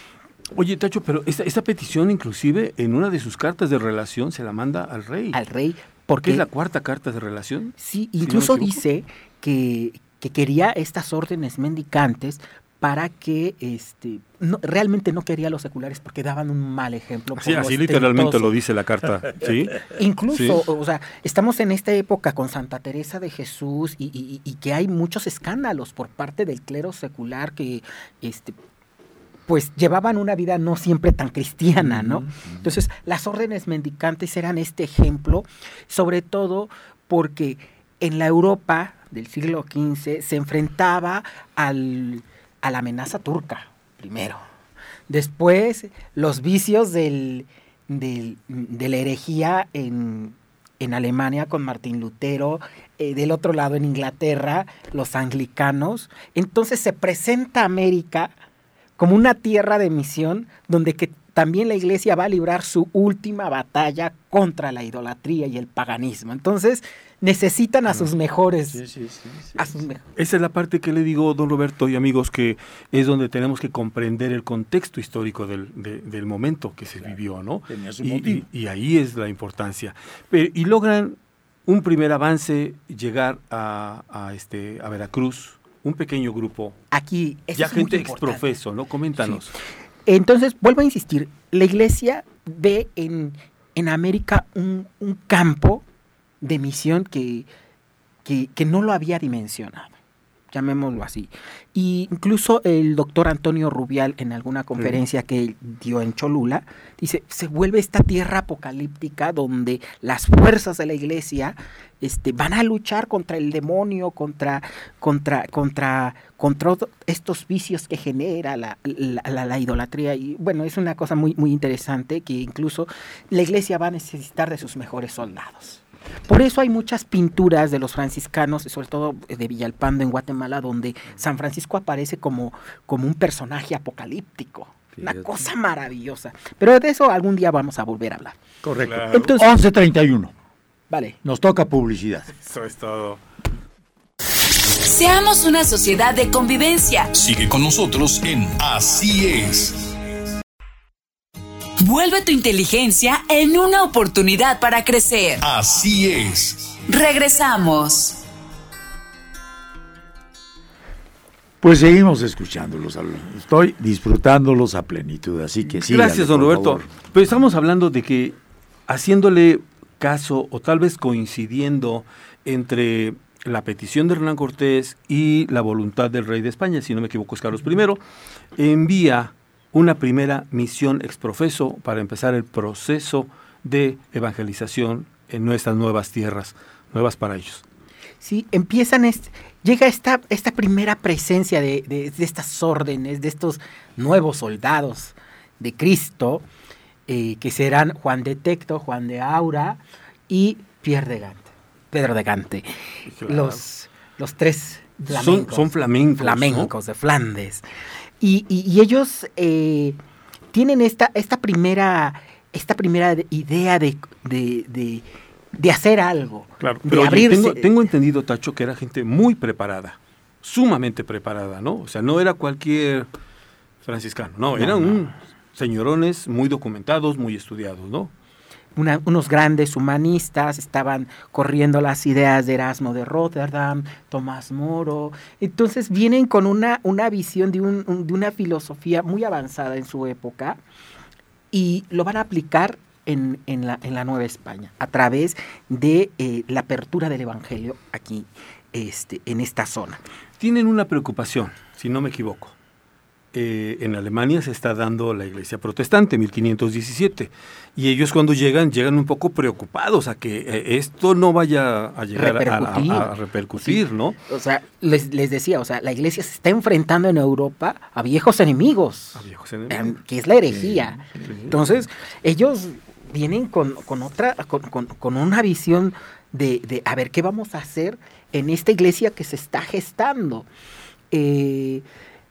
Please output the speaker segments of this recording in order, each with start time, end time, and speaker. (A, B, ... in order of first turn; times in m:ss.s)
0:00.5-0:05.4 A
0:05.3-0:06.4 B
0:06.2-0:08.8 A
0:07.8-0:18.5 B
0:17.4-0:20.6 A
0:19.8-0:28.6 B
0:29.5-0:44.4 B
0:31.8-0:32.7 C
0:45.1-0:58.3 B
0:59.0-1:08.8 B
1:08.7-1:09.7 C
1:09.6-1:10.0 B
1:10.2-1:26.8 A
1:17.7-1:18.4 C
1:26.9-1:28.4 B
1:27.6-1:29.5 A
1:30.1-1:35.8 B
1:36.4-1:37.5 B
1:38.2-1:40.0 B
1:40.5-2:18.4 B
2:14.9-2:15.5 C
2:18.6-2:20.3 C
2:18.8-2:19.3 A
2:19.1-2:19.5 B
2:20.9-2:21.2 B
2:21.2-2:22.3 C
2:22.4-2:23.2 A
2:24.5-2:27.1 D
2:27.1-2:29.9 E
2:31.8-2:35.4 D
2:35.4-2:36.8 E
2:36.9-2:38.2 D
2:41.6-2:47.0 C
2:45.7-2:48.4 A
2:48.9-2:58.0 A
2:58.6-3:07.6 A
3:08.2-3:16.4 B
3:17.1-3:22.7 B
3:23.1-3:23.6 A
3:23.2-3:27.6 B
3:25.0-3:26.7 A
3:28.2-3:30.0 B
3:30.5-3:35.0 B
3:35.6-3:37.7 B
3:36.6-3:43.1 A
3:43.8-3:48.1 A
3:44.6-3:44.9 B
3:48.8-4:00.6 B
4:01.5-4:10.0 B
4:10.4-4:12.5 A
4:13.3-4:24.2 A
4:22.1-4:40.5 B
4:29.2-4:30.0 A
4:30.5-4:31.6 C
4:31.3-4:31.5 A
4:41.1-4:41.8 B